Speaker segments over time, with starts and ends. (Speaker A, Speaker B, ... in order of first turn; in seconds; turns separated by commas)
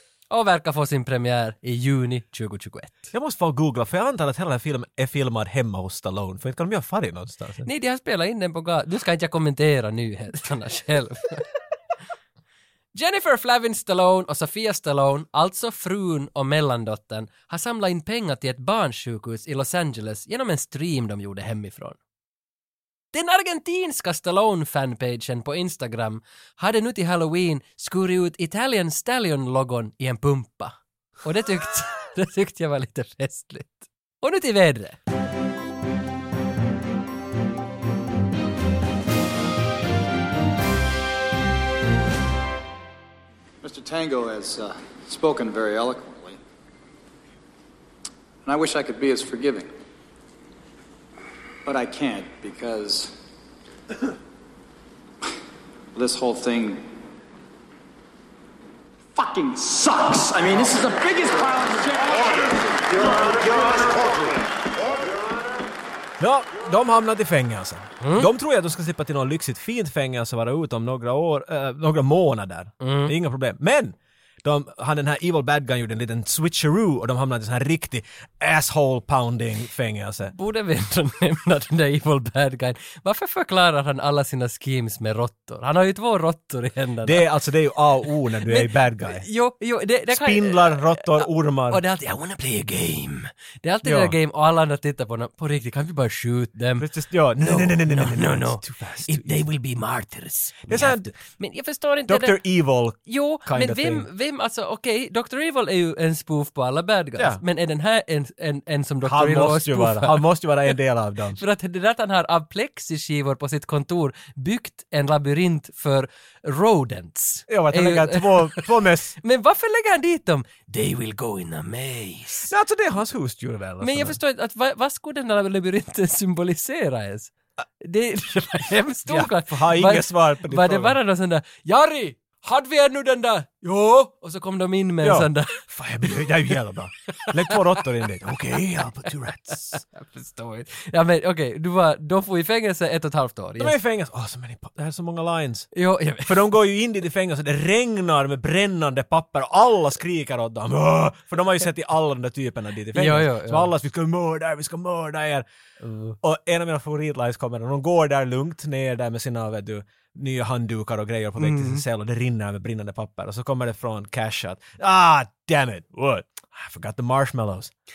Speaker A: 0.3-3.1, Speaker B: 3.1-7.7, Speaker A: 7.6-11.4, Speaker A: 12.9-22.0, Speaker A: 23.1-35.0, Speaker C: 43.6-46.4, Speaker C: 48.4-49.7, Speaker C: 51.6-53.1, Speaker C: 55.9-56.9, Speaker C: 59.1-64.3, Speaker B: 66.2-80.3, Speaker A: 68.0-68.3, Speaker A: 72.8-73.1, Speaker A: 80.3-87.3, Speaker B: 87.0-89.2, Speaker A: 88.4-96.9, Speaker B: 90.1-91.8, Speaker B: 93.8-94.1, Speaker B: 96.8-99.4, Speaker A: 97.4-102.4, Speaker B: 100.7-101.1, Speaker B: 102.1-104.0, Speaker A: 103.0-110.2, Speaker B: 107.2-107.4, Speaker B: 109.0-111.4, Speaker A: 111.3-122.5, Speaker B: 117.5-119.2, Speaker B: 122.4-124.2, Speaker A: 123.8-135.6, Speaker B: 129.1-131.0, Speaker B: 135.0-139.8, Speaker A: 137.1-137.8, Speaker A: 139.6-143.7, Speaker B: 143.6-145.7, Speaker A: 145.7-146.6, Speaker B: 146.2-155.4, Speaker A: 152.9-153.7, Speaker A: 155.8-156.2, Speaker B: 156.2-167.7, Speaker A: 161.4-161.8